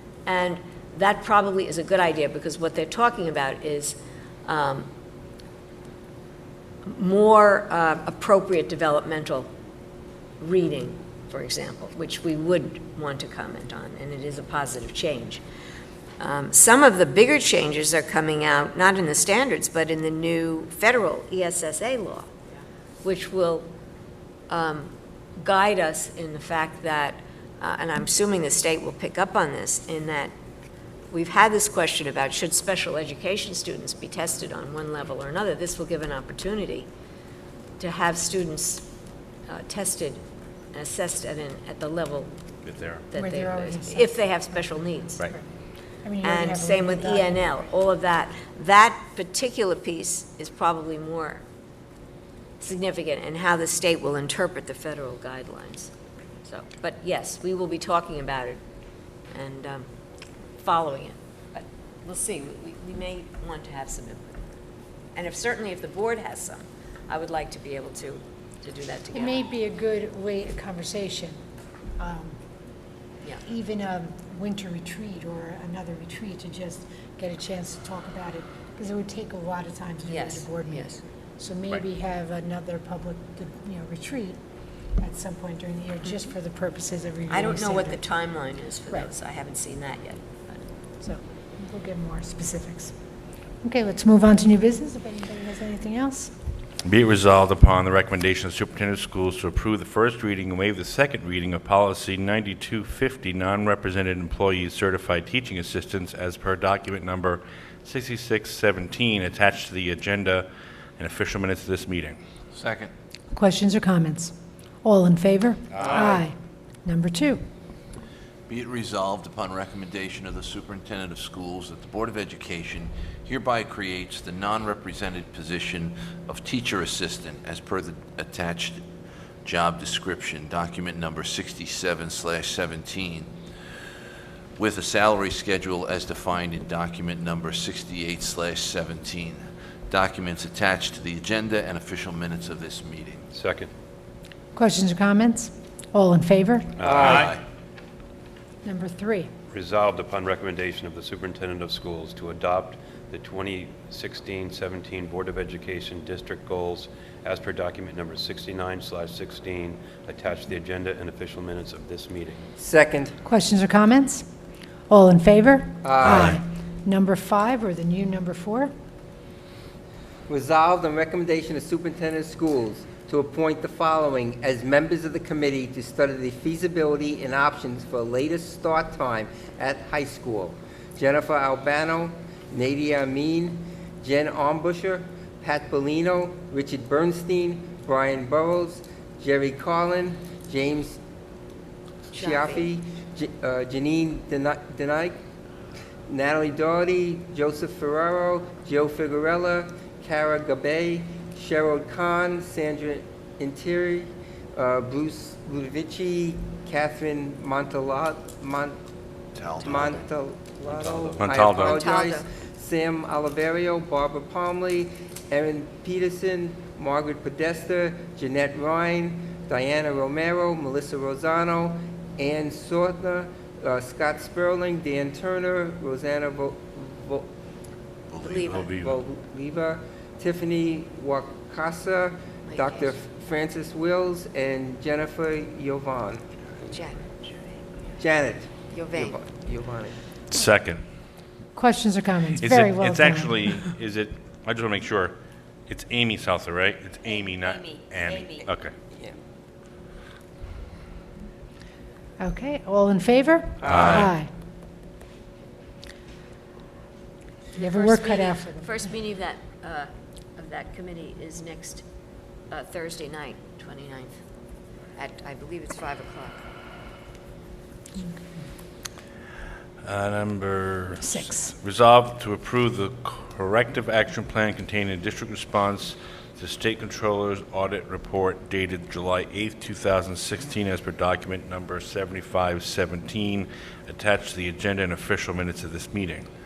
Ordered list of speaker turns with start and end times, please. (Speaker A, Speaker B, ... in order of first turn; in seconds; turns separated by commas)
Speaker A: 0.2-4.9, Speaker A: 6.8-9.5, Speaker A: 10.4-15.4, Speaker A: 16.2-22.3, Speaker A: 23.0-23.7, Speaker A: 24.5-30.3, Speaker A: 31.1-36.9, Speaker A: 37.8-38.9, Speaker A: 39.5-40.2, Speaker A: 40.7-42.3, Speaker B: 42.6-43.0, Speaker A: 43.1-45.3, Speaker C: 43.1-44.3, Speaker C: 46.0-47.4, Speaker A: 46.2-51.4, Speaker A: 52.6-55.9, Speaker A: 56.4-58.6, Speaker A: 59.3-59.9, Speaker A: 60.6-64.4, Speaker A: 65.1-69.5, Speaker C: 69.1-71.4, Speaker C: 72.0-72.4, Speaker C: 73.4-84.4, Speaker A: 80.1-81.0, Speaker C: 85.0-88.0, Speaker A: 87.3-90.6, Speaker C: 91.0-92.9, Speaker C: 93.6-96.3, Speaker B: 96.8-112.2, Speaker D: 112.5-112.9, Speaker C: 113.3-116.3, Speaker E: 115.8-116.2, Speaker C: 116.8-117.4, Speaker D: 118.5-128.8, Speaker D: 129.4-133.3, Speaker D: 134.6-143.3, Speaker F: 143.3-143.7, Speaker C: 144.5-146.8, Speaker F: 146.8-147.2, Speaker D: 146.9-147.4, Speaker C: 148.6-149.3, Speaker F: 149.5-162.4, Speaker E: 162.6-163.1, Speaker C: 163.2-164.2, Speaker C: 164.9-168.7, Speaker E: 165.8-166.3, Speaker E: 170.3-191.0, Speaker E: 192.1-195.2, Speaker A: 192.1-192.7, Speaker E: 196.1-208.8, Speaker D: 209.3-210.0, Speaker E: 209.5-227.3, Speaker B: 211.2-211.8, Speaker A: 211.5-212.2, Speaker D: 228.1-228.7, Speaker A: 228.2-228.6, Speaker E: 228.5-236.2, Speaker B: 228.5-228.9, Speaker A: 232.5-232.9, Speaker A: 236.7-237.5, Speaker E: 238.0-240.0, Speaker A: 238.7-239.1, Speaker B: 240.3-240.8, Speaker C: 241.5-243.5, Speaker B: 242.4-245.2, Speaker B: 245.7-248.7, Speaker C: 252.2-254.3, Speaker E: 253.6-254.0, Speaker B: 253.7-254.1, Speaker A: 257.5-261.8, Speaker C: 257.6-258.8, Speaker A: 262.5-264.2, Speaker A: 264.9-266.4, Speaker B: 269.8-286.3, Speaker C: 271.0-271.5